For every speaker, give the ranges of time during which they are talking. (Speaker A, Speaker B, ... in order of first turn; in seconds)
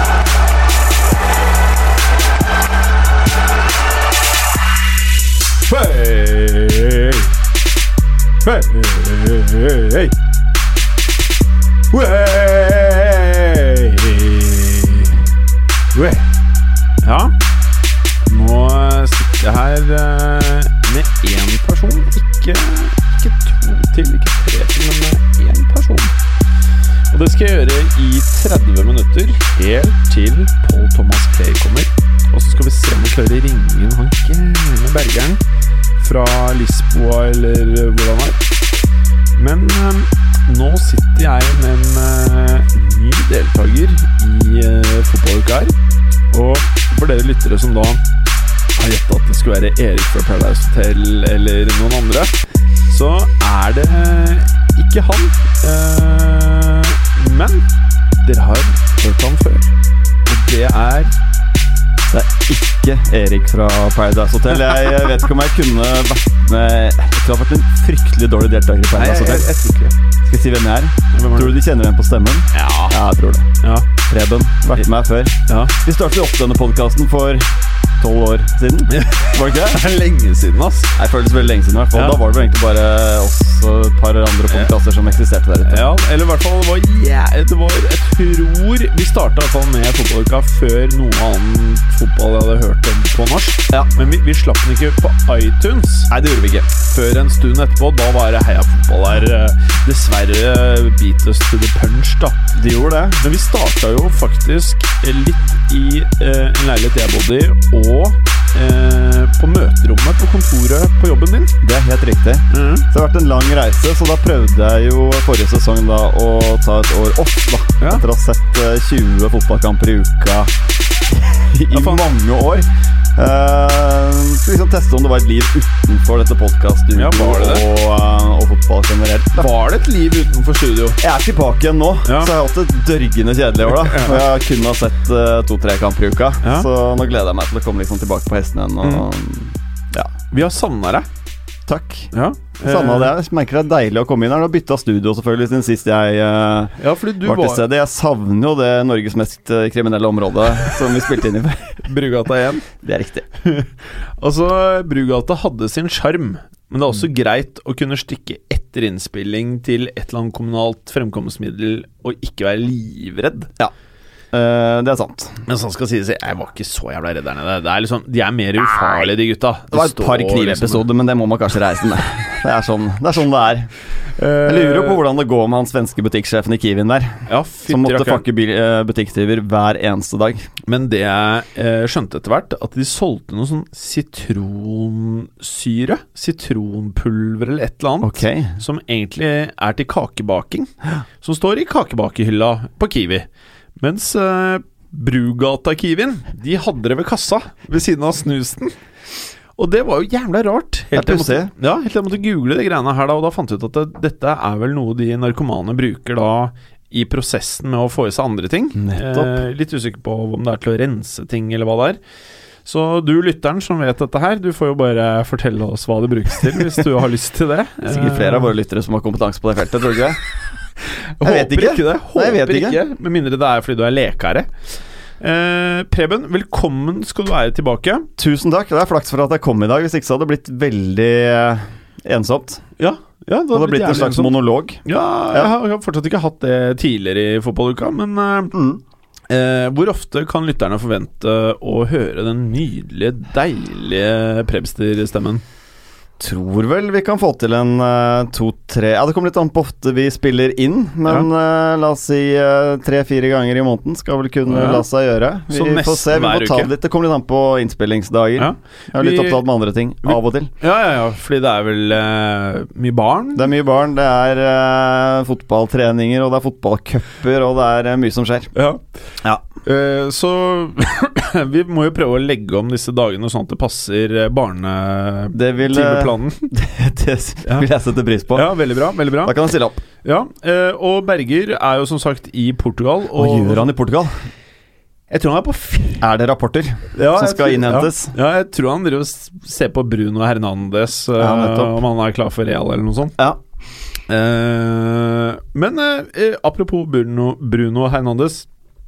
Speaker A: 5.7-7.3, 8.4-10.1, 11.9-15.2, 15.9-16.3, 17.0-17.3, 18.2-26.1, 27.1-35.4, 36.0-38.5, 39.3-45.8, 46.3-48.0, 48.8-52.3, 52.9-57.7, 58.2-59.7, 60.3-61.1, 69.0-70.0, 71.1-71.6, 72.5-73.0, 73.6-73.9, 75.5-75.8, 78.9-81.0, 85.7-96.1, 96.8-102.4, 103.2-111.5, 112.5-112.8, 121.7-122.0, 126.9-127.7, 129.3-131.0, 132.1-132.3, 133.8-134.2, 136.4-136.7, 138.8-139.1, 140.3-141.1, 142.1-143.1, 146.8-147.6, 151.8-152.7, 153.4-163.5, 165.5-170.8, 174.2-175.0, 177.3-178.2, 180.7-190.7, 191.2-193.3, 193.8-198.8, 199.6-212.0, 212.7-218.5, 221.2-224.5, 225.2-228.1, 232.8-234.3, 234.8-238.5, 239.3-245.4, 254.5-254.8, 255.5-256.7, 258.4-259.4, 260.0-263.5, 268.5-268.8, 269.6-276.5, 278.3-279.3, 280.0-283.7, 285.1-286.0, 286.9-293.1, 294.1-298.5
Speaker B: 62.1-69.5, 70.2-77.5, 78.0-79.8, 81.0-85.9, 96.1-96.7, 102.5-103.2, 111.6-120.5, 121.1-129.5, 131.0-140.1, 141.7-142.1, 142.6-151.8, 152.7-153.3, 164.3-165.4, 169.7-173.7, 174.5-180.5, 188.0-188.6, 200.9-201.5, 208.8-209.4, 217.9-220.2, 221.2-222.8, 228.2-232.7, 233.5-235.5, 238.5-238.8, 246.2-260.5, 263.4-268.5, 275.3-278.5, 279.2-279.8, 283.1-284.1, 286.0-288.1, 291.2-291.8